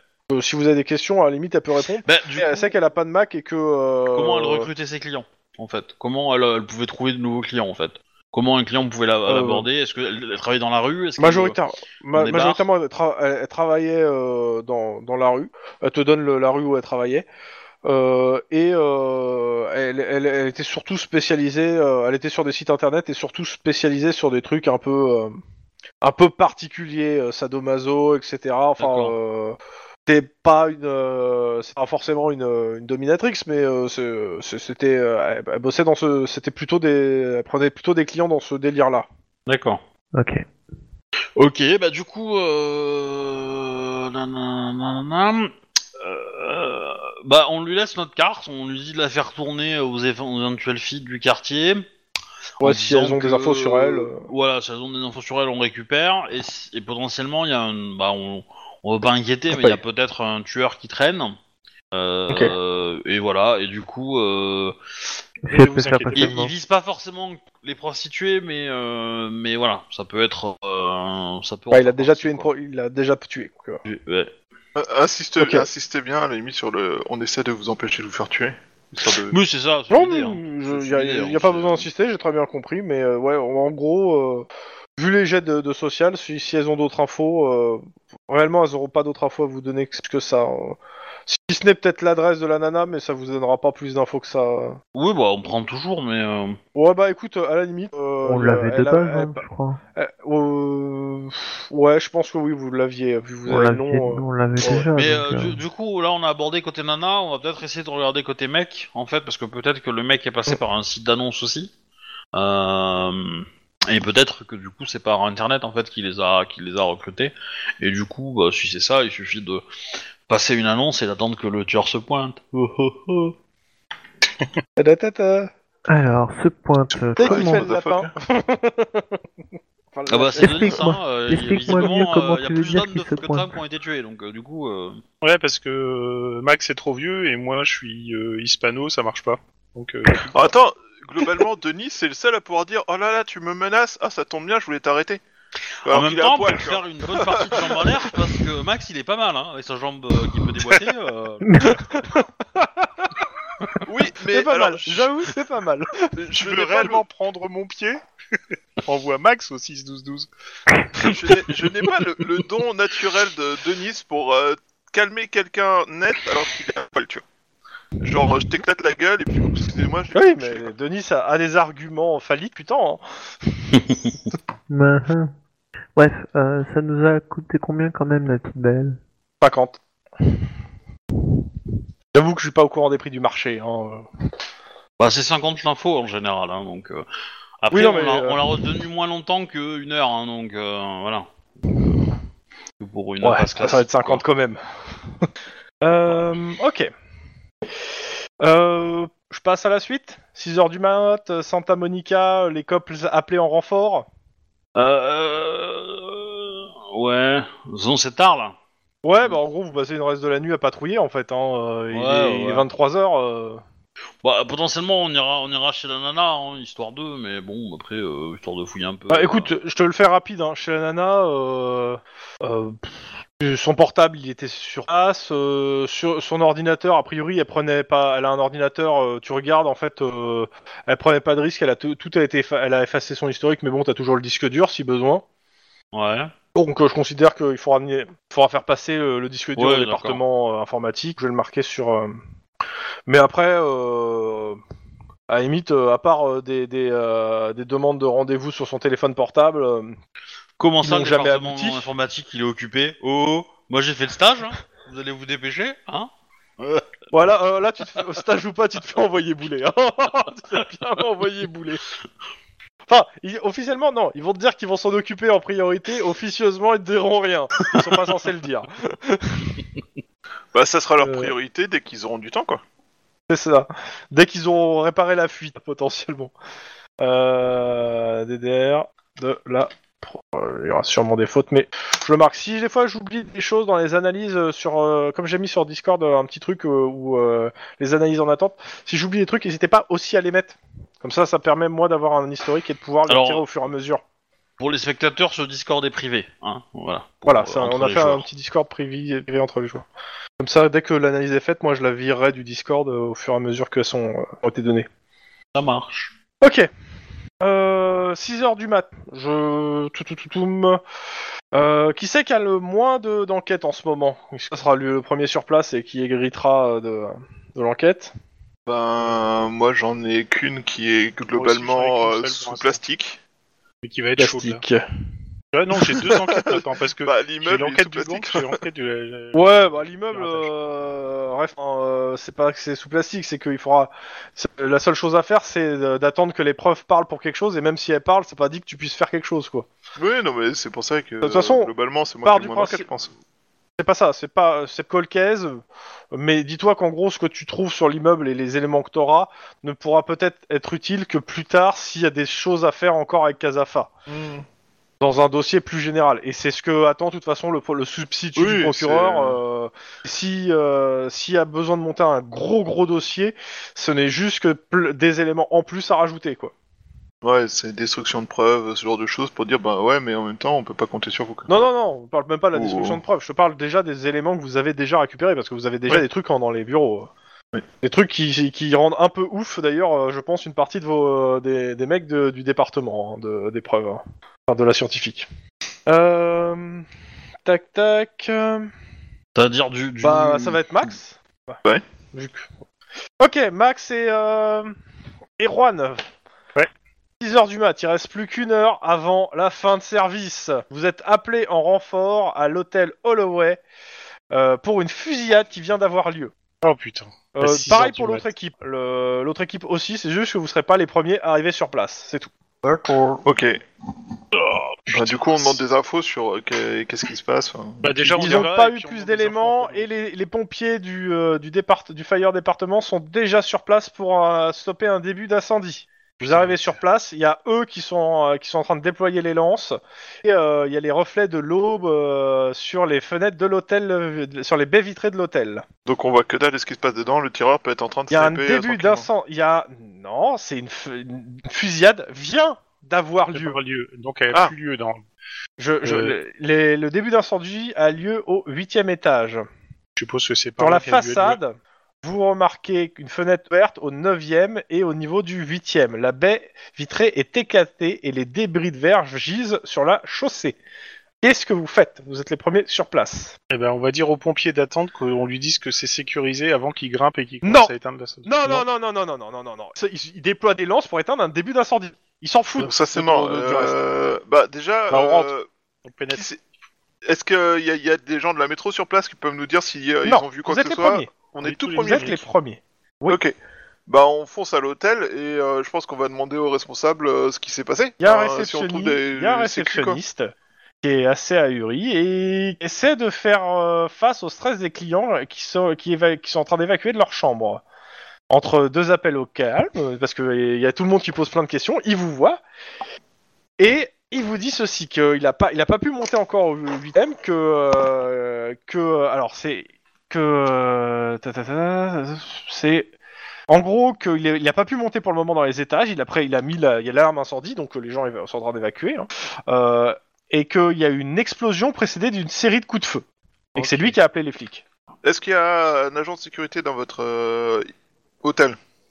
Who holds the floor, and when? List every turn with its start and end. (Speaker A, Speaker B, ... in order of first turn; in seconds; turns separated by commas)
Speaker A: 0.3-4.7, Speaker B: 2.0-2.7, Speaker B: 4.1-11.6, Speaker A: 9.3-9.7, Speaker A: 11.2-17.2, Speaker B: 12.2-12.6, Speaker A: 17.8-25.4, Speaker A: 26.0-39.1, Speaker B: 28.8-29.1, Speaker B: 39.5-39.8, Speaker C: 40.1-40.4, Speaker B: 41.4-51.9, Speaker A: 52.6-54.3, Speaker B: 52.6-61.4, Speaker A: 59.5-59.8, Speaker B: 61.9-64.8, Speaker A: 62.3-62.5, Speaker C: 65.5-66.5, Speaker D: 65.5-66.4, Speaker B: 66.2-72.5, Speaker A: 71.7-73.8, Speaker B: 73.8-74.3, Speaker E: 74.8-79.4, Speaker A: 75.4-75.7, Speaker B: 79.0-81.9, Speaker A: 79.9-94.8, Speaker B: 94.9-96.6, Speaker A: 96.7-99.4, Speaker C: 98.2-99.8, Speaker A: 100.0-104.9, Speaker C: 103.5-105.6, Speaker B: 104.9-111.7, Speaker B: 112.3-119.6, Speaker B: 120.3-123.3, Speaker A: 124.8-125.5, Speaker C: 125.9-127.6, Speaker E: 126.9-128.1, Speaker A: 127.2-129.2, Speaker A: 129.9-130.8, Speaker B: 130.1-135.0, Speaker C: 130.4-133.5, Speaker D: 135.2-140.5, Speaker E: 140.3-145.2, Speaker B: 145.8-151.4, Speaker E: 145.8-148.0, Speaker C: 151.4-151.8, Speaker A: 151.6-153.2, Speaker E: 153.8-155.1, Speaker A: 154.3-156.1, Speaker E: 156.2-157.0, Speaker D: 156.3-158.0, Speaker D: 158.8-160.3, Speaker E: 160.9-167.2, Speaker E: 168.0-170.7, Speaker A: 170.1-173.0, Speaker A: 173.6-173.8, Speaker C: 174.7-175.3, Speaker C: 175.9-179.0, Speaker A: 179.4-179.8, Speaker A: 182.1-184.0, Speaker B: 185.0-187.0, Speaker B: 187.6-192.0, Speaker A: 187.7-188.4, Speaker B: 192.8-194.2, Speaker A: 193.2-194.6, Speaker A: 195.8-196.9, Speaker A: 198.4-204.1, Speaker B: 204.8-208.6, Speaker A: 209.0-213.6, Speaker B: 211.9-212.7, Speaker B: 214.2-219.5, Speaker A: 219.1-235.2, Speaker B: 235.9-236.3, Speaker A: 236.5-242.2, Speaker B: 239.6-240.2, Speaker A: 243.1-244.6, Speaker A: 245.3-250.0, Speaker B: 250.6-256.9, Speaker A: 250.8-251.8, Speaker A: 257.1-261.8, Speaker A: 262.9-269.6, Speaker E: 270.5-272.6, Speaker A: 271.0-271.3, Speaker A: 273.3-276.3, Speaker A: 277.0-294.0, Speaker B: 293.1-293.4, Speaker B: 294.6-298.2, Speaker A: 297.2-299.9, Speaker A: 300.4-304.9, Speaker B: 305.5-306.1, Speaker A: 306.4-306.7, Speaker A: 307.4-310.8, Speaker A: 311.5-318.1, Speaker E: 318.7-323.2, Speaker D: 321.3-322.8, Speaker D: 323.8-324.6, Speaker A: 324.2-324.8, Speaker D: 325.5-330.5, Speaker E: 326.1-328.6, Speaker A: 329.3-339.7, Speaker E: 339.9-343.1, Speaker A: 341.2-341.7, Speaker A: 342.2-342.9, Speaker A: 343.8-353.9, Speaker E: 354.1-354.4, Speaker A: 355.0-366.5, Speaker E: 358.4-359.4, Speaker E: 367.2-371.5, Speaker A: 371.5-377.1, Speaker E: 372.5-373.0, Speaker A: 377.8-385.3, Speaker A: 385.9-386.9, Speaker A: 387.4-388.7, Speaker B: 389.3-390.6, Speaker A: 390.0-391.6, Speaker A: 392.1-392.5, Speaker A: 393.2-394.7, Speaker A: 395.4-396.1, Speaker A: 397.2-403.6, Speaker A: 404.3-406.3, Speaker D: 406.6-408.2, Speaker A: 407.3-412.3, Speaker D: 412.6-413.2, Speaker E: 413.2-413.6, Speaker D: 414.3-415.1, Speaker E: 414.9-418.5, Speaker D: 417.8-419.9, Speaker A: 418.2-435.6, Speaker D: 426.3-426.6, Speaker E: 435.9-439.1, Speaker A: 438.1-443.6, Speaker D: 443.3-445.0, Speaker A: 445.6-449.4, Speaker D: 445.8-446.1, Speaker D: 449.9-451.4, Speaker A: 450.6-460.6, Speaker A: 461.2-463.4, Speaker D: 463.5-468.6, Speaker A: 467.4-467.7, Speaker A: 468.2-473.8, Speaker E: 472.6-475.4, Speaker D: 474.9-475.3, Speaker D: 475.9-476.2, Speaker E: 476.1-476.4, Speaker E: 477.1-482.2, Speaker A: 480.0-483.2, Speaker D: 481.4-482.1, Speaker E: 483.1-483.3, Speaker E: 483.9-490.0, Speaker A: 488.0-497.6, Speaker A: 498.3-502.4, Speaker A: 503.6-512.9, Speaker A: 513.5-523.0, Speaker D: 523.5-523.9, Speaker A: 523.5-524.6, Speaker E: 525.0-527.7, Speaker E: 528.2-528.6